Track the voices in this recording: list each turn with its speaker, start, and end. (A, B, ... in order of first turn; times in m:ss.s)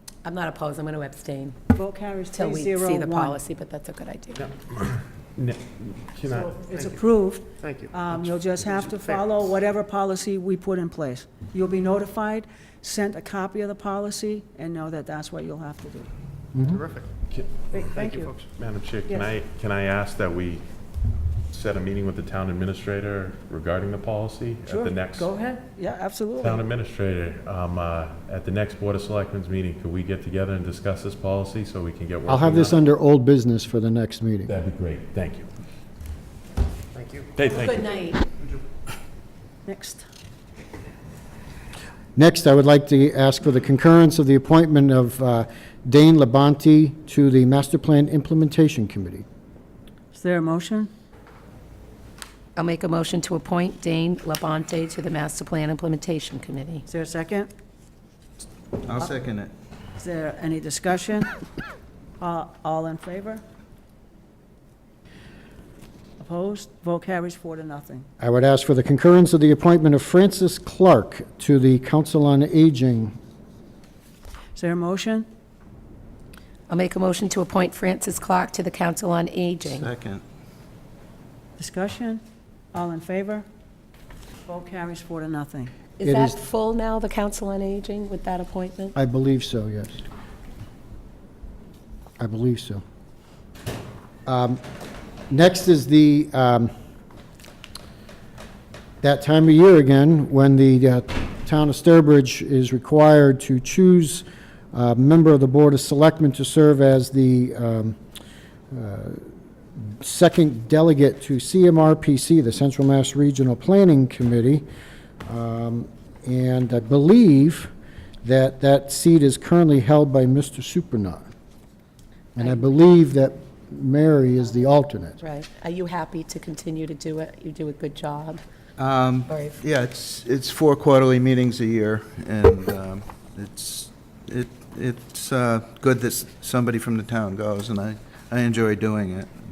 0:00.2-0:01.6 A
0:01.7-0:03.4 B
0:02.3-0:04.4 A
0:04.4-0:06.6 C
0:06.3-0:09.5 D
0:06.7-0:16.1 B
0:16.5-0:16.8 E
0:16.6-0:17.1 D
0:17.3-0:20.6 C
0:17.7-0:18.3 B
0:17.9-0:18.4 D
0:21.5-0:25.3 C
0:24.7-0:26.6 B
0:26.4-0:32.8 C
0:32.2-0:34.6 E
0:34.5-0:35.5 C
0:36.9-0:37.4 D
0:37.3-0:37.9 C
0:37.4-0:38.2 A
0:39.6-0:40.0 B
0:42.1-0:49.2 E
0:50.1-0:50.9 B
0:52.6-0:56.8 A
0:56.9-0:57.5 B
0:58.8-0:59.5 F
1:00.0-1:01.3 B
1:02.2-1:03.4 B
1:06.2-1:08.1 B
1:08.2-1:13.2 E
1:14.5-1:15.2 B
1:16.7-1:19.9 A
1:19.6-1:20.2 F
1:21.6-1:22.2 B
1:22.7-1:23.4 B
1:24.4-1:25.7 B
1:26.0-1:28.9 A
1:26.0-1:26.4 E
1:28.9-1:30.0 E
1:32.2-1:32.8 E
1:34.2-1:34.6 E
1:35.3-1:36.7 E
1:39.0-1:48.0 E
1:48.7-1:49.3 E
1:49.8-1:54.6 E
1:55.2-1:57.7 E
1:58.2-2:01.3 E
2:02.4-2:05.2 E
2:02.4-2:02.6 A
2:05.2-2:08.4 A
2:08.8-2:19.3 F
2:09.3-2:09.6 A